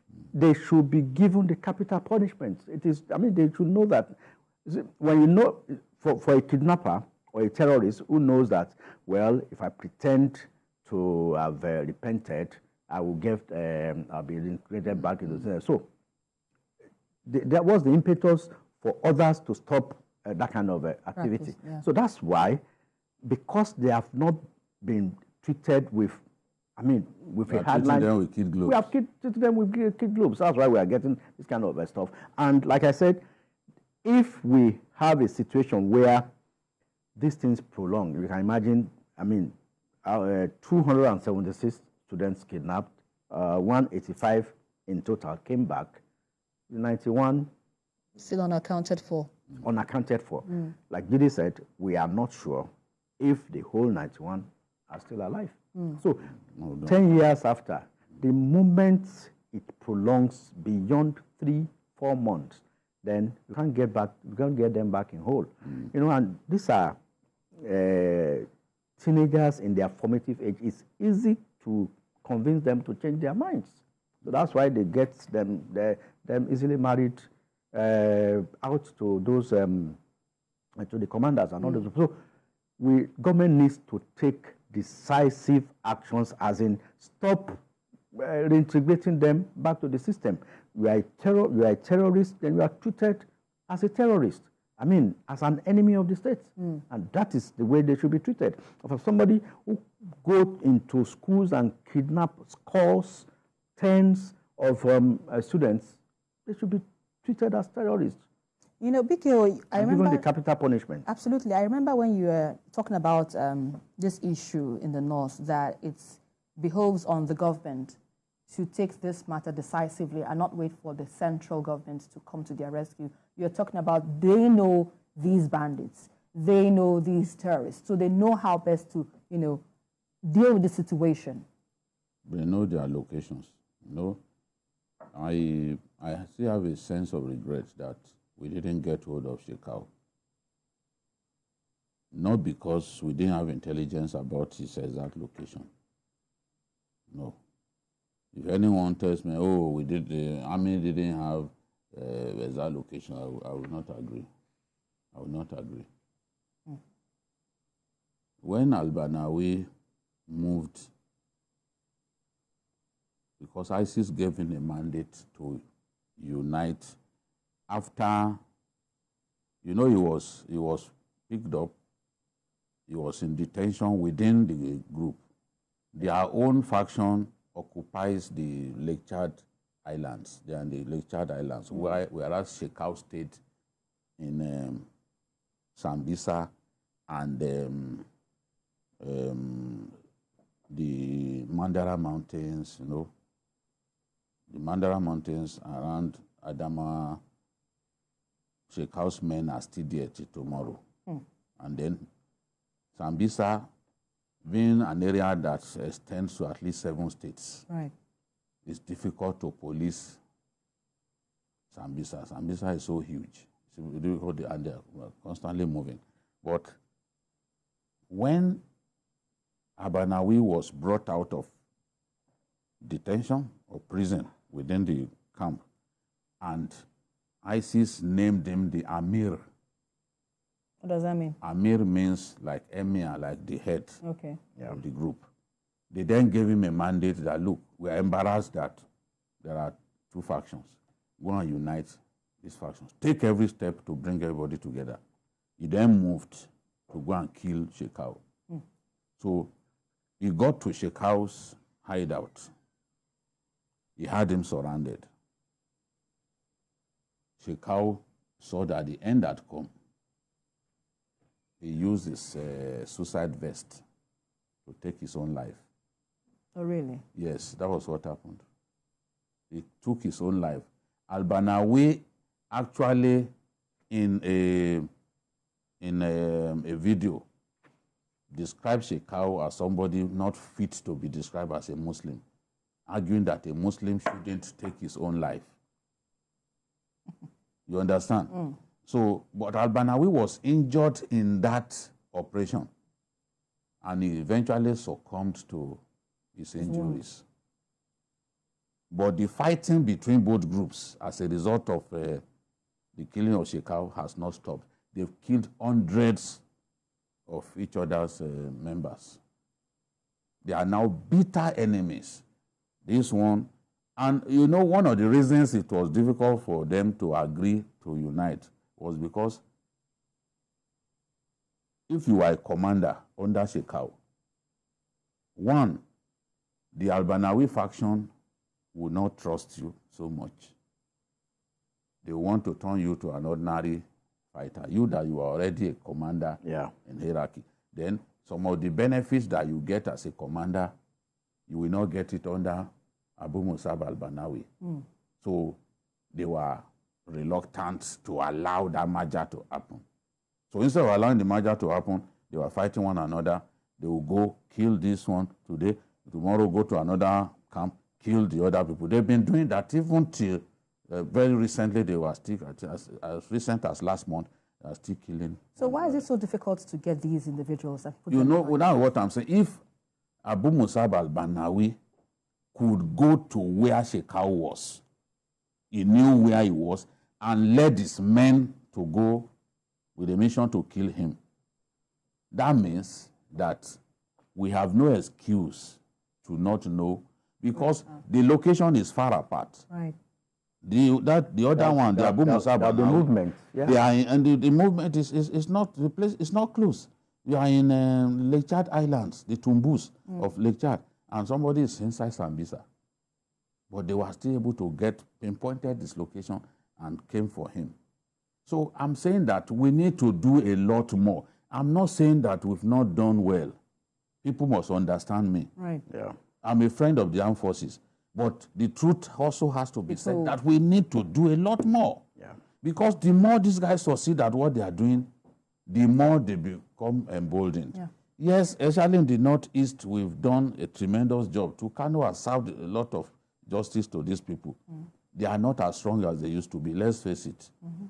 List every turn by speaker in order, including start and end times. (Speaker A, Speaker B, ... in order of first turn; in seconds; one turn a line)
Speaker A: 0.3-15.9
Speaker A: 17.2-22.6
Speaker B: 21.2-21.8
Speaker A: 23.2-26.2
Speaker A: 26.8-28.1
Speaker C: 27.5-28.9
Speaker A: 28.7-33.2
Speaker A: 34.0-36.3
Speaker A: 37.1-46.0
Speaker A: 46.7-47.5
Speaker B: 48.2-49.3
Speaker A: 49.6-52.7
Speaker A: 53.2-56.3
Speaker C: 56.5-56.9
Speaker A: 56.9-67.0
Speaker A: 67.6-68.5
Speaker A: 69.0-80.0
Speaker A: 80.8-82.2
Speaker A: 82.8-87.6
Speaker A: 88.1-103.2
Speaker A: 103.8-108.2
Speaker B: 108.8-110.2
Speaker A: 109.7-111.0
Speaker B: 111.0-118.0
Speaker B: 118.5-129.6
Speaker B: 130.2-131.4
Speaker C: 132.3-134.2
Speaker C: 135.1-139.9
Speaker C: 142.1-145.7
Speaker C: 147.1-147.3
Speaker C: 148.3-154.3
Speaker C: 155.1-155.9
Speaker C: 158.4-159.7
Speaker C: 160.3-160.9
Speaker C: 163.4-165.6
Speaker C: 166.2-166.9
Speaker C: 167.7-168.4
Speaker C: 169.6-171.7
Speaker C: 172.9-175.2
Speaker C: 175.9-183.4
Speaker C: 184.2-184.8
Speaker C: 185.7-186.5
Speaker C: 187.1-188.1
Speaker C: 189.0-189.9
Speaker C: 190.7-193.1
Speaker C: 194.5-197.2
Speaker C: 198.7-200.8
Speaker C: 201.6-202.0
Speaker C: 202.9-203.7
Speaker C: 204.4-207.7
Speaker C: 208.7-210.2
Speaker C: 211.7-216.8
Speaker C: 218.1-218.6
Speaker C: 219.8-221.5
Speaker C: 222.8-225.6
Speaker C: 226.4-226.8
Speaker C: 227.4-229.4
Speaker B: 230.8-231.3
Speaker C: 231.4-234.0
Speaker B: 234.0-234.4
Speaker C: 234.7-235.2
Speaker C: 235.9-238.8
Speaker C: 239.4-245.0
Speaker C: 245.6-248.2
Speaker C: 249.2-249.5
Speaker C: 250.2-252.5
Speaker C: 254.0-255.1
Speaker C: 257.4-259.7
Speaker C: 261.6-263.8
Speaker C: 264.6-265.6
Speaker B: 266.5-267.0
Speaker C: 267.1-268.4
Speaker C: 269.5-273.3
Speaker C: 273.9-274.9
Speaker C: 275.8-277.2
Speaker C: 278.3-282.2
Speaker C: 282.9-285.5
Speaker C: 287.7-292.7
Speaker C: 293.8-295.8
Speaker C: 296.4-297.2
Speaker B: 296.6-297.0
Speaker C: 298.9-302.2
Speaker C: 302.9-306.4
Speaker C: 307.3-309.2
Speaker C: 310.4-312.2
Speaker C: 312.8-319.4
Speaker C: 321.9-323.9
Speaker C: 325.4-325.8
Speaker C: 326.7-328.1
Speaker C: 328.7-330.5
Speaker C: 332.0-340.7
Speaker A: 336.4-336.7
Speaker C: 341.5-344.5
Speaker C: 345.2-345.6
Speaker C: 346.1-349.8
Speaker C: 350.5-366.0
Speaker B: 365.6-368.6
Speaker C: 368.1-369.6
Speaker C: 370.2-371.8
Speaker C: 372.5-374.8
Speaker C: 375.7-379.3
Speaker C: 379.9-381.2
Speaker C: 382.3-383.8
Speaker C: 384.3-389.6
Speaker B: 389.7-389.9
Speaker C: 390.6-393.1
Speaker A: 391.6-393.8
Speaker C: 393.6-402.6
Speaker C: 403.7-407.7
Speaker C: 408.4-413.5
Speaker C: 414.2-415.5
Speaker B: 415.6-415.8
Speaker A: 415.9-416.1
Speaker C: 416.4-422.0
Speaker B: 419.9-420.3
Speaker C: 422.6-425.1
Speaker C: 425.7-434.6
Speaker C: 435.1-437.5